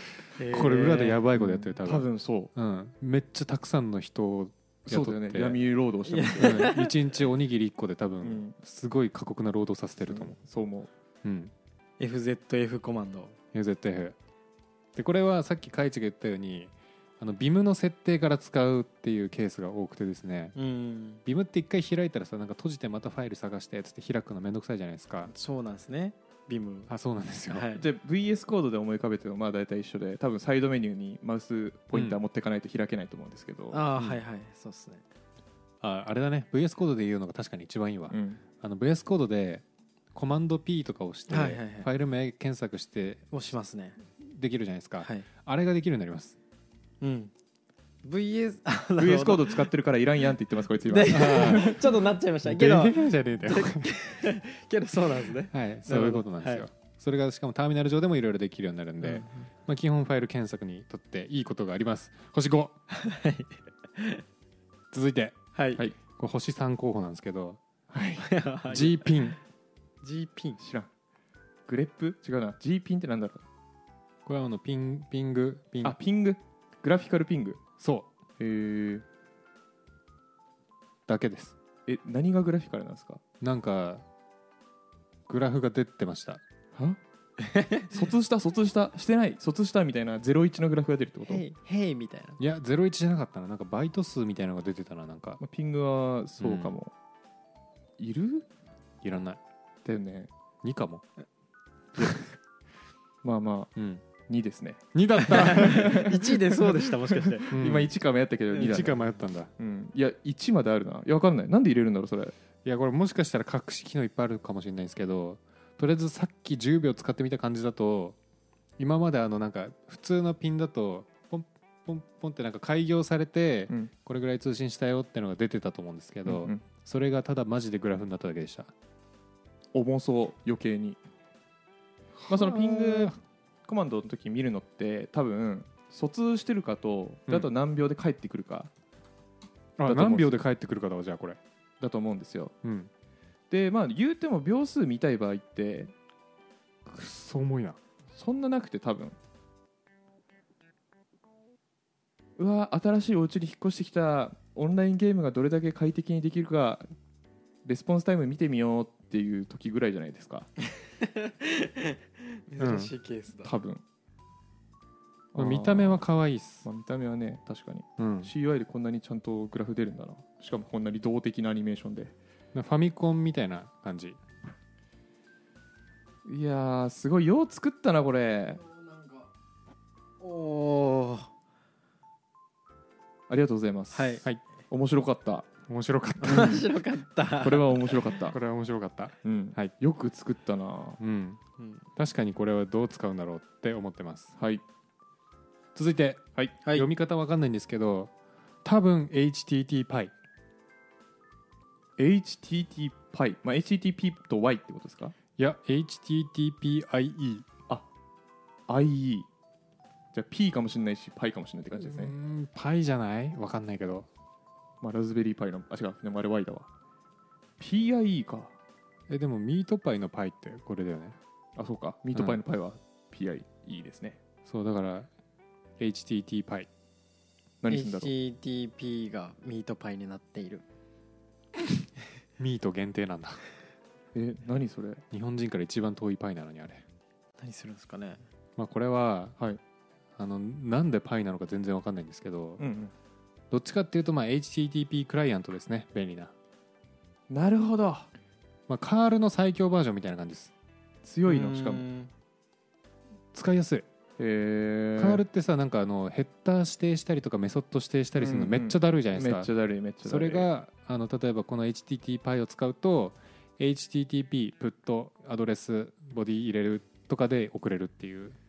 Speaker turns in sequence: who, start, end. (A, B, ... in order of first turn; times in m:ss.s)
0:00.4-0:01.2 A
0:00.5-0:05.6 B
0:01.4-0:02.5 C
0:04.9-0:06.8 C
0:06.1-0:06.9 A
0:06.4-0:10.4 B
0:08.2-0:08.6 C
0:10.1-0:10.9 C
0:11.2-0:11.5 B
0:12.0-0:13.4 A
0:13.5-0:14.2 B
0:15.0-0:20.6 B
0:20.6-0:21.2 A
0:21.2-0:25.3 B
0:25.3-0:26.9 A
0:26.9-0:27.7 B
0:27.5-0:27.9 A
0:27.8-0:33.8 C
0:31.9-0:32.2 B
0:33.7-0:35.0 A
0:35.8-0:43.3 B
0:38.1-0:38.4 C
0:41.3-0:41.9 A
0:43.3-0:44.0 A
0:44.2-0:46.4 B
0:47.0-0:47.3 A
0:48.0-0:49.7 A
0:49.0-0:51.8 C
0:50.8-0:56.6 A
0:51.1-0:51.8 B
0:52.4-0:53.9 B
0:55.5-1:02.8 B
1:02.9-1:04.2 A
1:04.9-1:05.4 B
1:05.6-1:05.8 A
1:06.2-1:07.6 B
1:07.9-1:08.3 C
1:08.2-1:09.3 A
1:08.7-1:09.4 B
1:10.0-1:10.6 A
1:10.6-1:10.9 C
1:11.7-1:13.4 C
1:14.3-1:16.0 B
1:15.8-1:17.6 C
1:17.8-1:18.1 B
1:18.4-1:19.0 C
1:21.1-1:21.6 B
1:21.9-1:23.2 C
1:23.4-1:24.0 B
1:25.3-1:26.4 B
1:26.7-1:27.0 C
1:27.4-1:27.9 A
1:27.9-1:31.4 C
1:31.3-1:32.4 A
1:32.4-1:35.4 B
1:35.4-1:36.9 C
1:36.4-1:36.8 B
1:38.0-1:38.5 C
1:39.0-1:39.4 B
1:39.8-1:40.3 C
1:40.6-1:41.0 B
1:43.2-1:43.7 C
1:43.8-1:44.0 B
1:44.3-1:49.0 C
1:44.9-1:46.1 B
1:45.3-1:47.5 A
1:47.5-1:47.9 B
1:48.6-1:49.5 B
1:49.6-1:52.4 C
1:52.6-1:58.2 B
1:58.8-2:08.7 B
2:06.2-2:06.6 C
2:09.7-2:11.0 C
2:12.2-2:13.2 B
2:12.3-2:13.2 C
2:13.7-2:18.7 C
2:19.8-2:21.4 B
2:19.8-2:20.4 C
2:21.8-2:22.5 C
2:22.6-2:22.9 B
2:23.5-2:25.9 C
2:26.9-2:27.8 B
2:28.1-2:29.2 C
2:32.4-2:36.9 C
2:37.6-2:40.5 C
2:41.0-2:43.5 A
2:42.6-2:42.9 B
2:43.4-2:43.8 C
2:45.3-2:46.0 C
2:45.4-2:46.7 B
2:46.6-2:52.1 C
2:48.0-2:48.3 B
2:52.5-2:54.2 B
2:56.2-2:58.6 C
2:58.6-2:59.3 A
3:00.2-3:01.3 A
3:03.3-3:05.5 C
3:03.9-3:04.3 A
3:05.7-3:06.6 B
3:06.2-3:08.1 A
3:06.2-3:06.6 C
3:07.4-3:08.4 C
3:08.3-3:09.7 B
3:09.2-3:11.0 C
3:11.0-3:11.4 B
3:11.6-3:11.8 A
3:12.0-3:14.3 B
3:14.4-3:14.6 C
3:15.8-3:18.1 B
3:18.6-3:20.1 B
3:22.0-3:25.2 C
3:25.4-3:27.5 B
3:28.7-3:29.3 C
3:30.1-3:32.1 C
3:31.8-3:34.1 B
3:34.8-3:36.7 C
3:37.6-3:38.6 C
3:39.1-3:41.2 B
3:41.6-3:44.2 C
3:44.5-3:45.1 B
3:45.8-3:46.7 B
3:47.6-3:48.1 C
3:47.7-3:50.6 A
3:52.4-3:53.4 B
3:54.1-3:55.0 C
3:55.1-3:56.8 B
3:57.4-3:58.2 A
3:58.6-3:59.4 B
4:00.2-4:02.6 B
4:02.6-4:02.9 C
4:03.5-4:06.3 B
4:07.3-4:08.1 C
4:08.7-4:10.5 B
4:11.0-4:11.9 C
4:11.3-4:12.1 A
4:13.3-4:13.9 B
4:14.2-4:15.2 C
4:15.0-4:19.5 B
4:18.2-4:20.5 C
4:20.0-4:28.4 B